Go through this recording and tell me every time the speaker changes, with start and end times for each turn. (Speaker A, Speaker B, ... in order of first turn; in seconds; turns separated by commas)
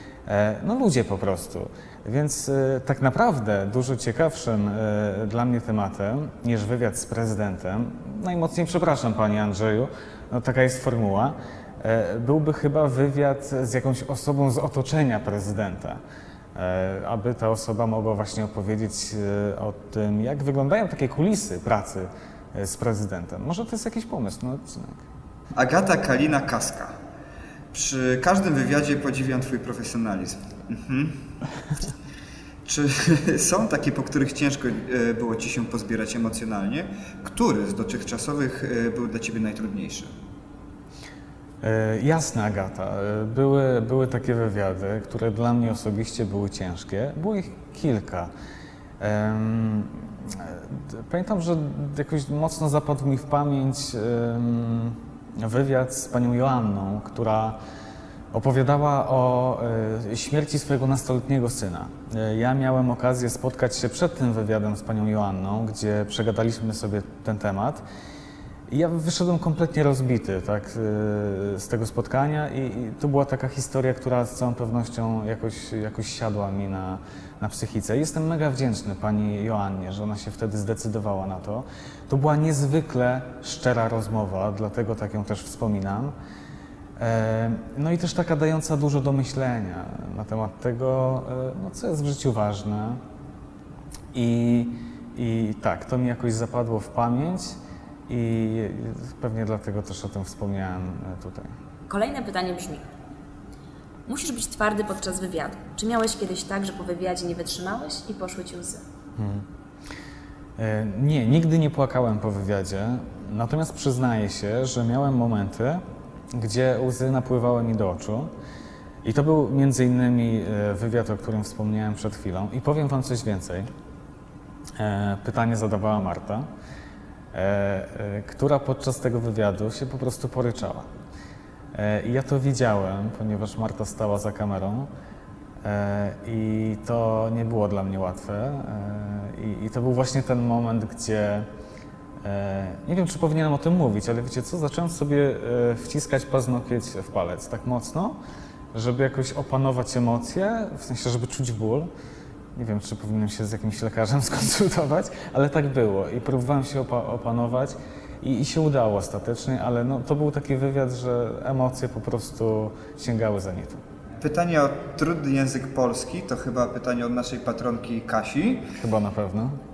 Speaker A: 0.3-16.0, Speaker A: 16.6-25.0, Speaker B: 25.6-26.9, Speaker B: 27.7-31.2, Speaker B: 32.6-40.1, Speaker A: 41.6-48.3, Speaker A: 49.0-57.6, Speaker A: 58.3-67.8, Speaker A: 68.7-86.1, Speaker A: 87.0-93.0, Speaker A: 94.1-97.6, Speaker A: 98.1-101.5, Speaker C: 101.9-102.8, Speaker C: 104.1-108.8, Speaker A: 109.2-109.5, Speaker A: 110.6-115.8, Speaker A: 116.3-118.3, Speaker A: 119.0-123.7, Speaker A: 124.8-126.5, Speaker A: 127.3-130.9, Speaker A: 131.7-134.9, Speaker A: 135.6-141.5, Speaker A: 142.2-148.2, Speaker A: 148.7-151.9, Speaker A: 152.6-163.8, Speaker B: 164.2-168.7, Speaker A: 168.8-169.6